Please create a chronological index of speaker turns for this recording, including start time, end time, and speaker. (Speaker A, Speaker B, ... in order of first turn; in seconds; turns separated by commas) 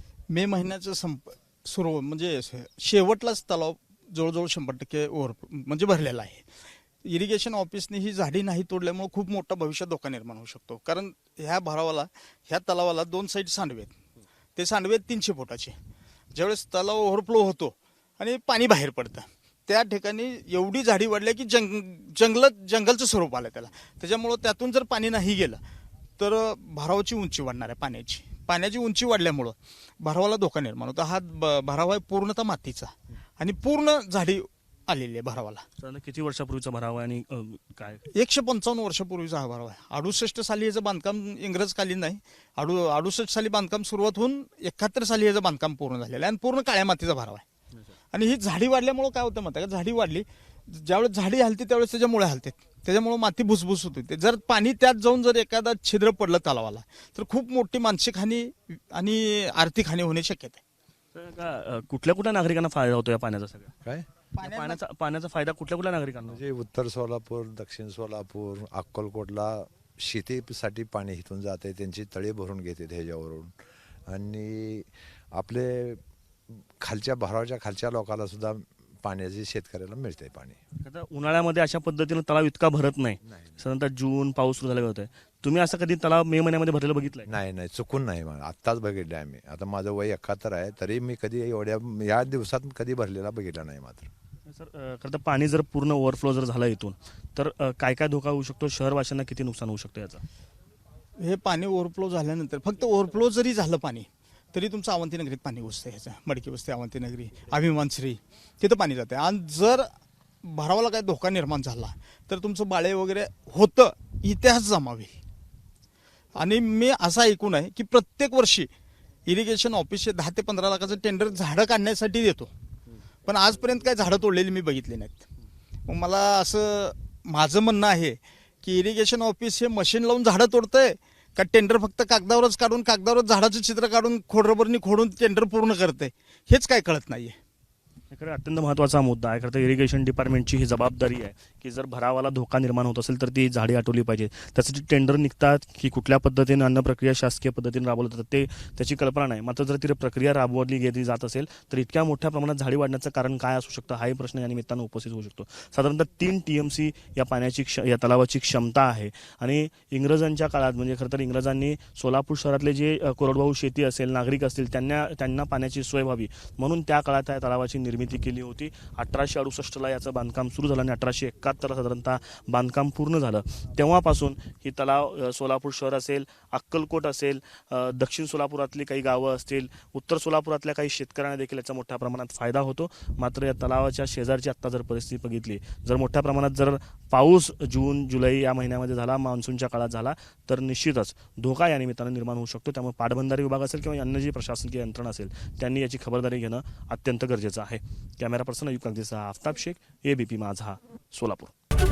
Speaker A: 0.3-6.4, Speaker A: 7.0-13.9, Speaker A: 14.6-15.8, Speaker A: 16.3-25.6, Speaker A: 26.2-35.6, Speaker B: 35.8-38.1, Speaker A: 38.1-47.4, Speaker A: 48.1-60.6, Speaker B: 61.1-63.7, Speaker A: 64.3-64.8, Speaker B: 64.4-66.4, Speaker C: 66.3-73.5, Speaker C: 74.1-76.0, Speaker C: 76.8-80.6, Speaker B: 80.8-87.3, Speaker C: 83.3-83.5, Speaker C: 87.3-94.1, Speaker B: 94.5-100.2, Speaker A: 101.2-109.9, Speaker A: 110.4-115.2, Speaker A: 116.4-118.7, Speaker A: 119.3-122.5, Speaker A: 123.3-125.2, Speaker A: 125.9-137.4, Speaker B: 138.1-201.5